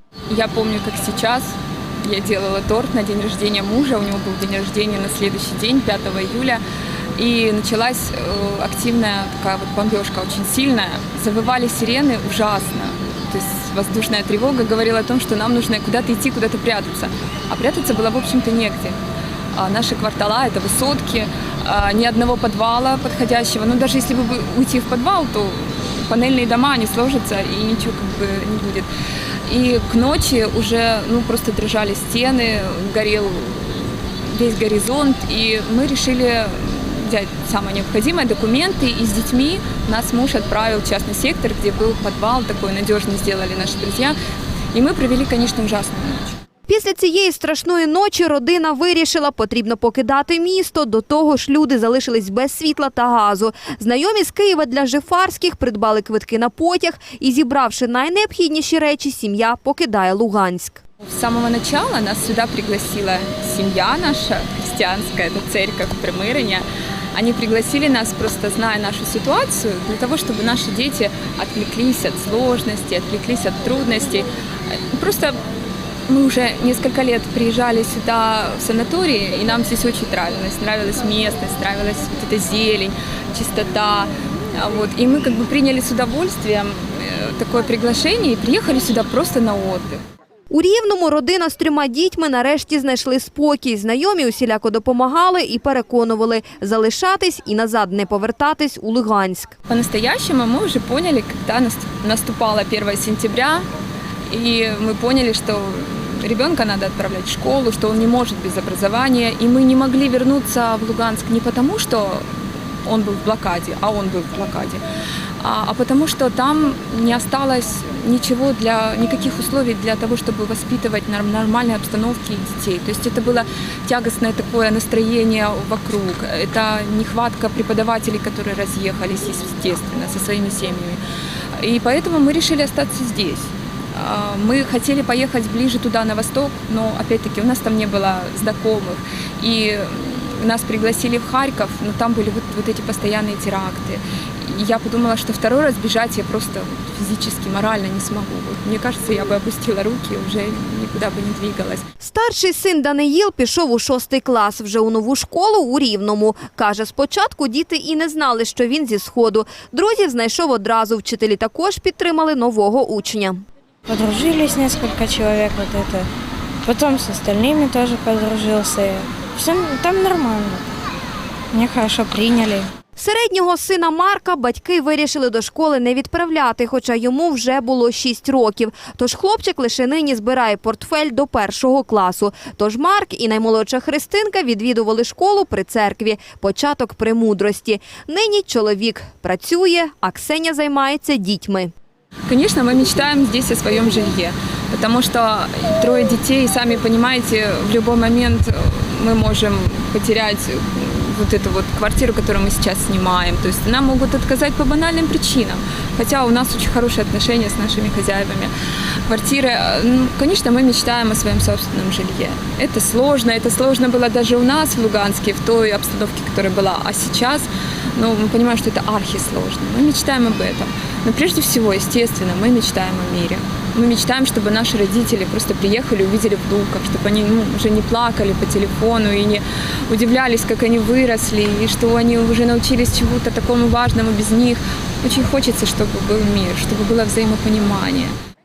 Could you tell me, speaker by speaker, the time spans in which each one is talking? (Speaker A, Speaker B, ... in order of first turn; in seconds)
Speaker A: 0.3-1.5, 2.0-6.6, 7.2-19.0, 19.5-28.9, 29.5-44.1, 44.7-46.3, 61.1-74.3, 74.9-75.4, 76.1-90.0, 99.7-103.7, 104.3-112.3, 112.8-114.8, 115.4-131.0, 131.6-151.8, 192.3-208.5, 209.1-238.1
Speaker B: 46.7-60.8, 90.5-99.5, 152.0-163.4, 173.0-191.7
Speaker C: 163.9-166.1, 166.6-170.6, 171.5-172.7